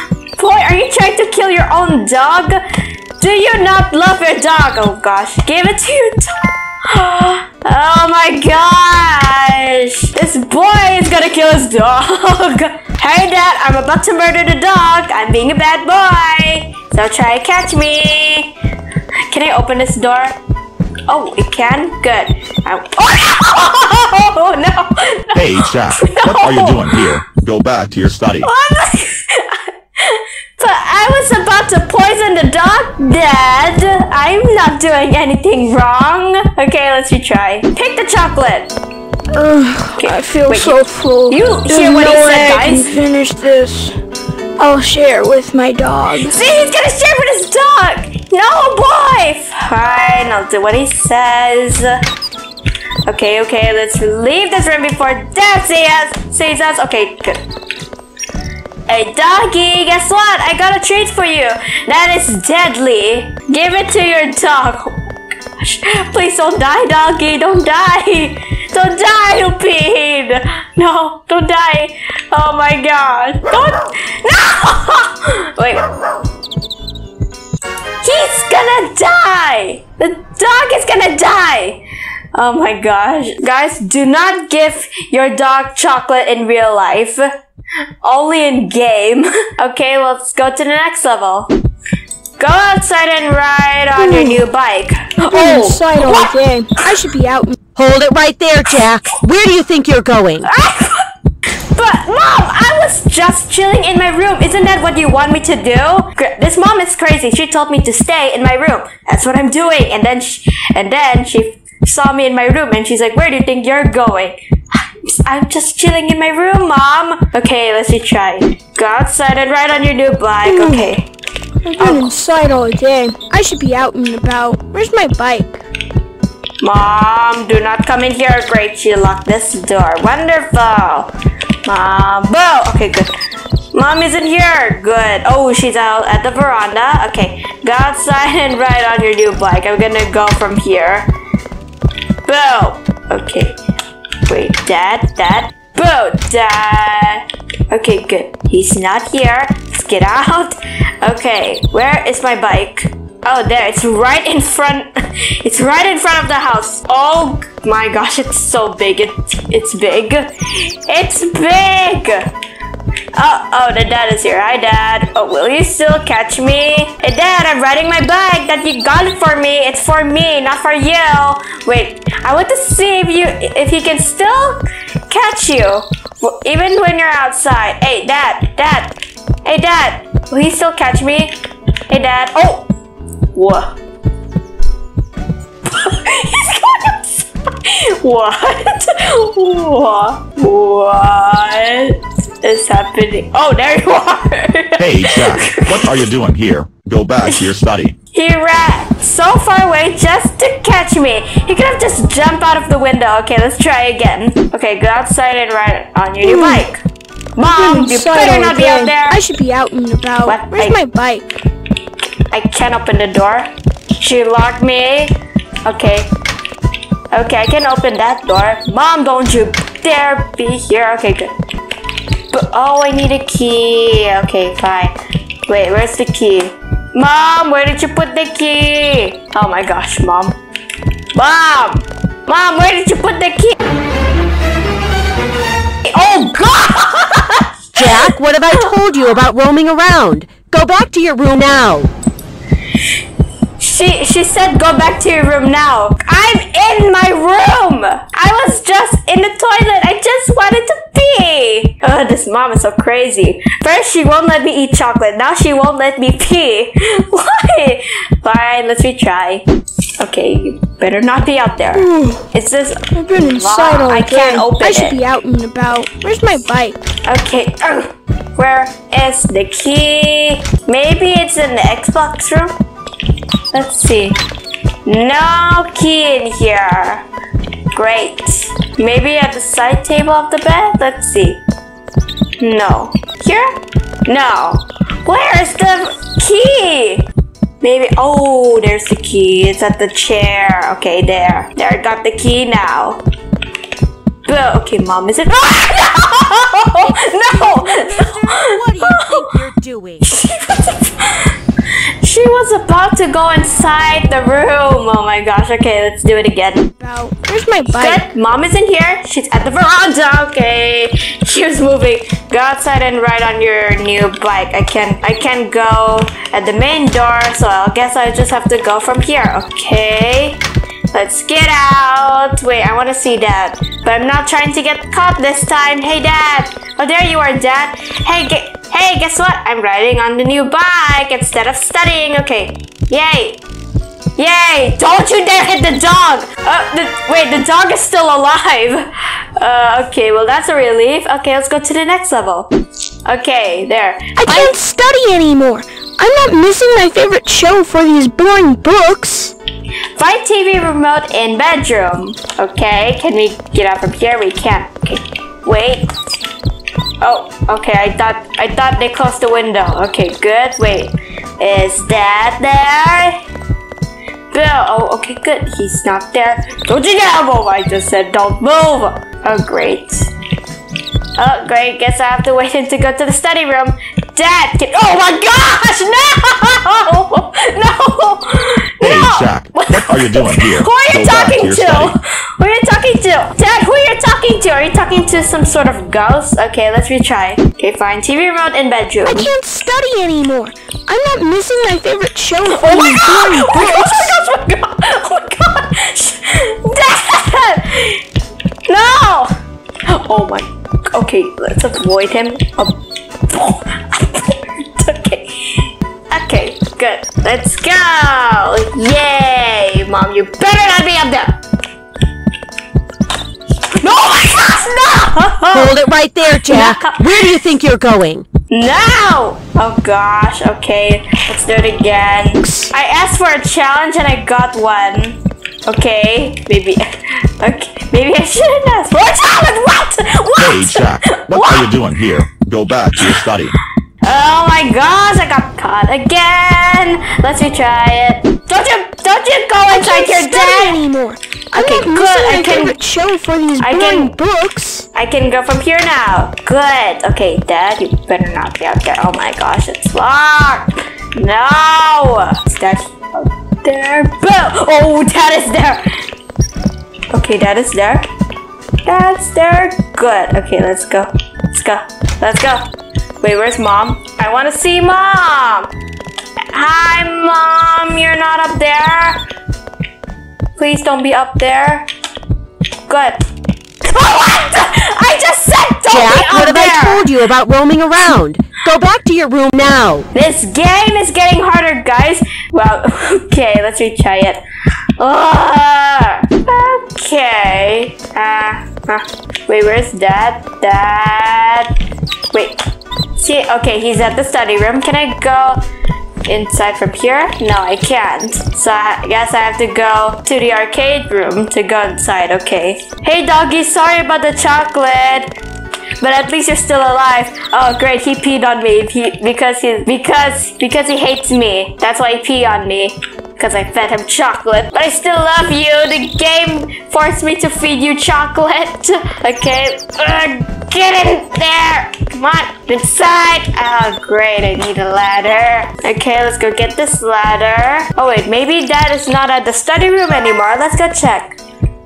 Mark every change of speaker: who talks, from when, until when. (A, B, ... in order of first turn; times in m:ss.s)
0:00.4-0:02.6 A
0:03.2-0:18.5 A
0:19.3-0:20.4 A
0:21.1-0:27.1 A
0:25.3-0:28.5 B
0:28.4-0:38.7 A
0:39.3-0:43.9 C
0:40.0-0:42.9 A
0:44.6-0:46.3 C
0:46.2-0:52.0 A
0:53.1-0:57.4 A
0:58.9-1:05.0 A
1:05.6-1:16.0 A
1:18.0-1:21.8 A
1:22.3-1:27.2 A
1:28.0-1:31.5 A
1:32.4-1:36.4 A
1:34.0-1:34.4 C
1:35.3-1:37.6 C
1:37.8-1:40.5 D
1:40.4-1:41.1 A
1:41.7-2:01.1 A
2:00.4-2:00.9 C
2:01.6-2:05.6 C
2:01.8-2:02.1 A
2:06.6-2:11.1 A
2:11.6-2:13.1 A
2:13.7-2:21.1 A
2:22.2-2:23.6 A
2:24.2-2:34.9 A
2:35.4-2:40.3 A
2:40.9-2:42.3 A
2:43.1-3:01.3 A
3:01.9-3:02.7 A
3:03.3-3:03.7 A
3:05.6-3:16.1 A
3:14.8-3:17.9 B
3:18.1-3:26.8 A
3:26.2-3:26.6 C
3:27.4-3:29.2 A
3:27.5-3:31.3 C
3:30.2-3:30.8 A
3:32.3-3:35.1 A
3:35.6-3:36.1 A
3:37.1-3:41.3 A
3:42.3-3:44.9 A
3:45.5-3:50.4 A
3:51.1-3:53.6 A
3:55.9-3:58.7 A
3:57.8-4:01.9 D
4:03.6-4:19.4 A
4:20.0-4:25.0 A
4:21.8-4:22.2 C
4:22.9-4:26.8 C
4:27.1-4:32.6 A
4:33.5-4:34.2 A
4:34.9-4:37.0 A
4:37.7-4:41.4 A
4:42.4-4:43.5 A
4:44.1-4:47.1 A
4:47.6-4:53.0 A
4:54.2-4:59.3 A
4:56.8-5:00.1 D
5:00.0-5:01.4 A
5:02.0-5:06.7 A
5:06.8-5:08.0 C
5:07.7-5:20.4 A
5:20.9-5:33.4 A
5:34.2-5:42.5 A
5:43.1-5:44.6 A
5:44.2-5:49.3 C
5:50.0-5:55.9 A
5:57.0-6:03.2 A
6:04.3-6:10.1 A
6:11.2-6:29.3 A
6:18.8-6:22.0 B
6:29.1-6:34.1 C
6:32.5-6:38.0 A
6:38.7-6:39.3 A
6:39.8-6:42.8 A
6:43.3-6:51.4 A
6:53.8-6:55.8 A
6:55.5-6:58.3 D
6:56.4-6:57.4 A
6:58.5-7:06.8 A
7:02.4-7:02.7 D
7:07.4-7:11.8 A
7:10.4-7:13.5 B
7:14.0-7:20.8 A
7:19.7-7:24.8 C
7:21.5-7:22.8 A
7:23.6-7:24.2 A
7:24.9-7:35.8 A
7:37.1-7:38.1 A
7:38.8-7:42.6 A
7:43.2-7:45.7 A
7:46.5-7:49.2 A
7:50.6-7:51.9 A
7:52.9-7:53.2 A
7:53.9-7:57.1 A
7:55.9-8:00.1 D
8:00.1-8:04.4 A
8:05.0-8:11.7 A
8:12.3-8:12.6 A
8:13.2-8:15.6 A
8:16.3-8:25.3 A
8:26.0-8:51.4 A